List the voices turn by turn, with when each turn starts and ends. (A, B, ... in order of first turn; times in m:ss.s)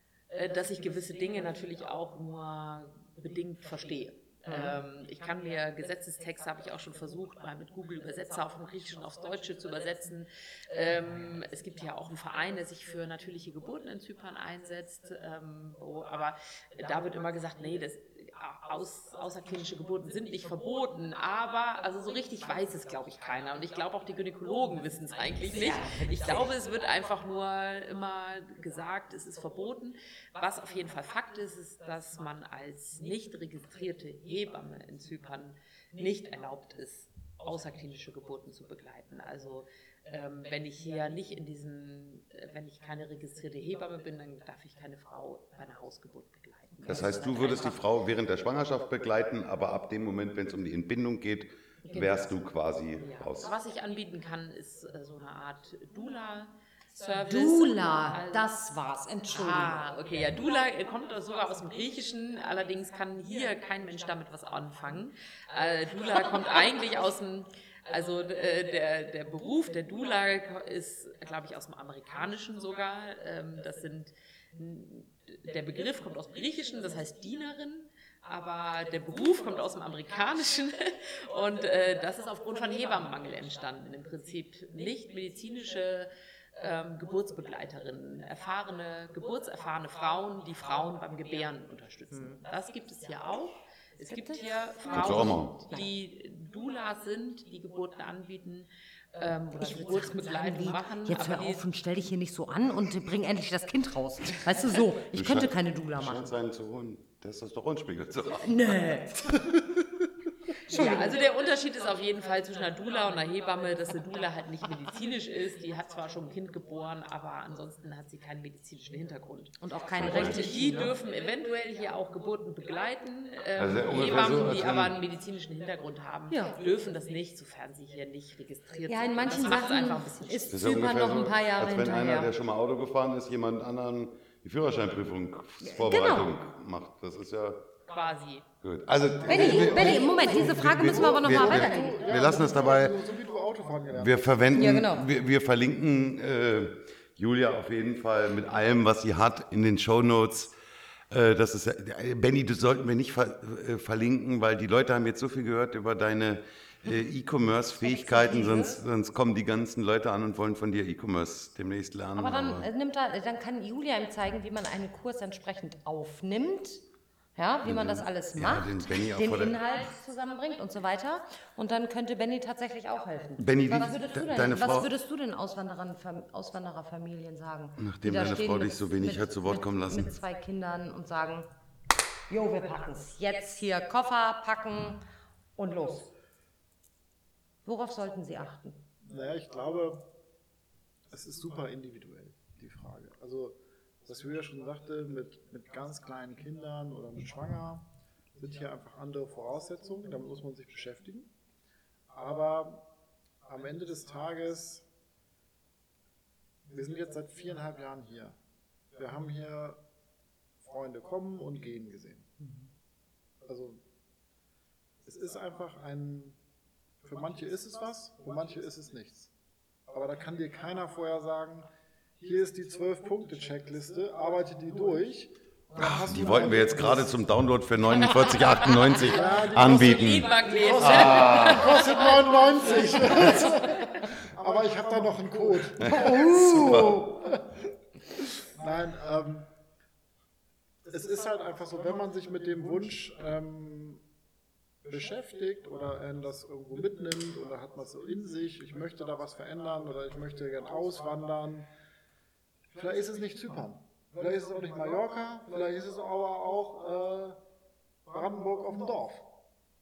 0:00.3-0:47.8 A
0:04.4-0:04.8 B
0:25.5-0:26.5 B
0:46.8-0:53.5 C
0:51.9-0:52.2 A
0:53.0-0:58.5 A
0:57.3-0:59.8 B
0:59.3-1:41.6 A
1:34.1-1:35.9 B
1:34.9-1:35.5 C
1:39.6-1:46.3 B
1:45.1-1:49.0 C
1:48.4-1:49.4 B
1:50.7-2:10.5 A
1:50.7-1:51.2 B
1:59.6-2:01.0 B
2:00.0-2:00.5 C
2:03.6-2:04.9 C
2:06.3-2:06.6 B
2:08.9-2:12.3 B
2:10.5-2:17.7 C
2:15.6-2:16.3 B
2:17.8-2:18.5 A
2:18.6-2:23.0 C
2:19.2-2:24.4 D
2:19.2-2:22.2 B
2:23.9-2:30.5 C
2:24.5-2:25.1 B
2:31.1-2:42.7 C
2:37.8-2:38.8 B
2:42.2-2:46.8 B
2:47.4-3:01.5 B
2:47.6-2:49.6 C
2:53.4-2:54.9 C
2:57.8-3:00.1 C
3:02.3-3:05.0 B
3:05.6-3:06.1 B
3:07.6-3:08.8 B
3:09.0-3:10.0 D
3:11.1-3:21.3 D
3:22.1-3:22.9 D
3:23.4-3:24.8 D
3:26.7-3:28.4 D
3:28.9-3:29.8 D
3:30.6-3:32.3 D
3:33.4-3:33.8 D
3:35.0-3:36.4 D
3:37.0-3:39.3 D
3:39.9-3:41.7 D
3:42.2-3:47.1 D
3:45.8-3:51.8 C
3:49.0-3:57.7 D
3:49.1-3:53.8 A
3:53.3-3:53.6 B
3:55.8-3:57.2 C
3:55.8-3:57.1 B
3:58.4-3:59.5 D
4:00.8-4:04.0 D
4:04.8-4:11.7 D
4:12.7-4:17.4 D
4:18.0-4:19.3 D